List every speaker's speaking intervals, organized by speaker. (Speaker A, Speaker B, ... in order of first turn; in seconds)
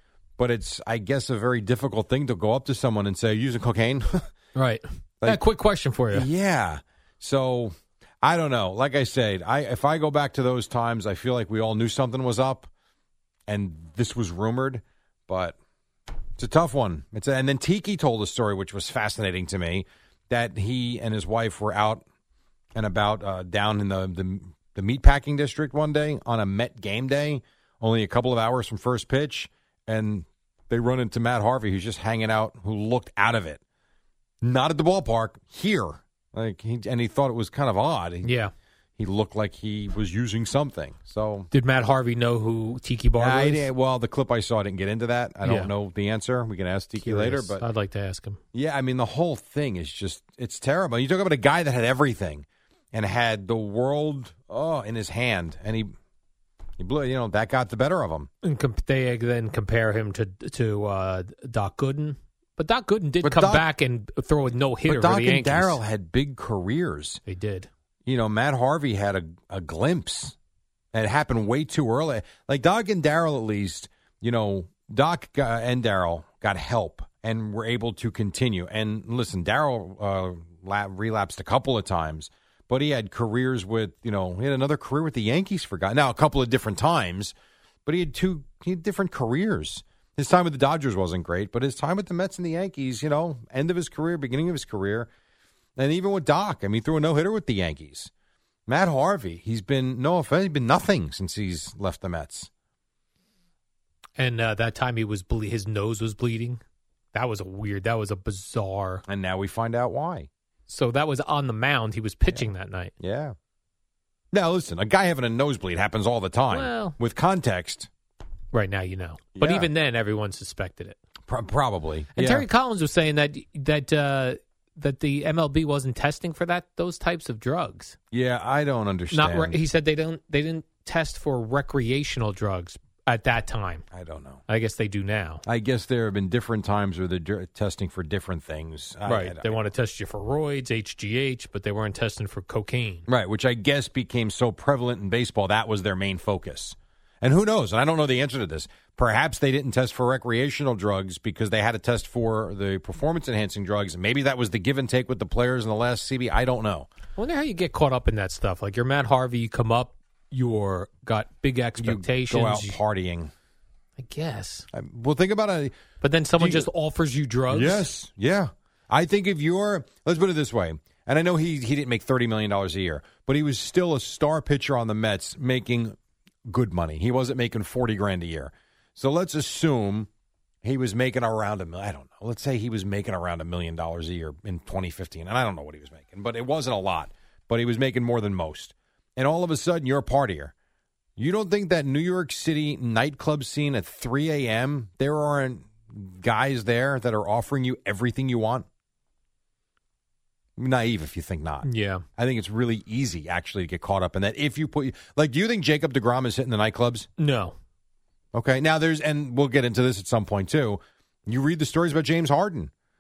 Speaker A: 0.4-4.3, 6.1-12.7, 13.5-15.6, 16.4-22.0, 22.7-33.6, 34.4-38.3, 39.0-41.5, 43.2-47.6, 48.5-55.9, 56.8-58.3, 63.2-63.6, 64.9-67.2, 68.1-70.3, 70.9-87.3, 87.8-95.1, 95.8-98.1, 98.7-102.5, 109.1-110.3, 113.0-113.3, 114.3-117.9, 119.3-119.7, 121.3-122.5, 128.1-129.6, 133.9-134.4, 135.4-139.6, 143.1-156.9, 161.8-163.3, 164.7-165.8, 166.4-166.7, 167.5-180.1, 180.6-190.5, 191.2-198.7, 200.6-207.1, 208.3-212.7
Speaker B: 4.5-6.3, 38.2-38.5, 41.5-43.7, 45.4-45.7, 47.0-48.4, 58.4-65.8, 67.2-67.7, 104.2-106.6, 107.1-109.0, 110.7-112.9, 116.5-117.0, 118.5-121.0, 122.1-128.0, 129.1-133.8, 134.5-135.4, 139.1-143.1, 157.2-162.8, 164.0-164.7, 166.0-167.9, 201.6-202.0, 207.2-207.5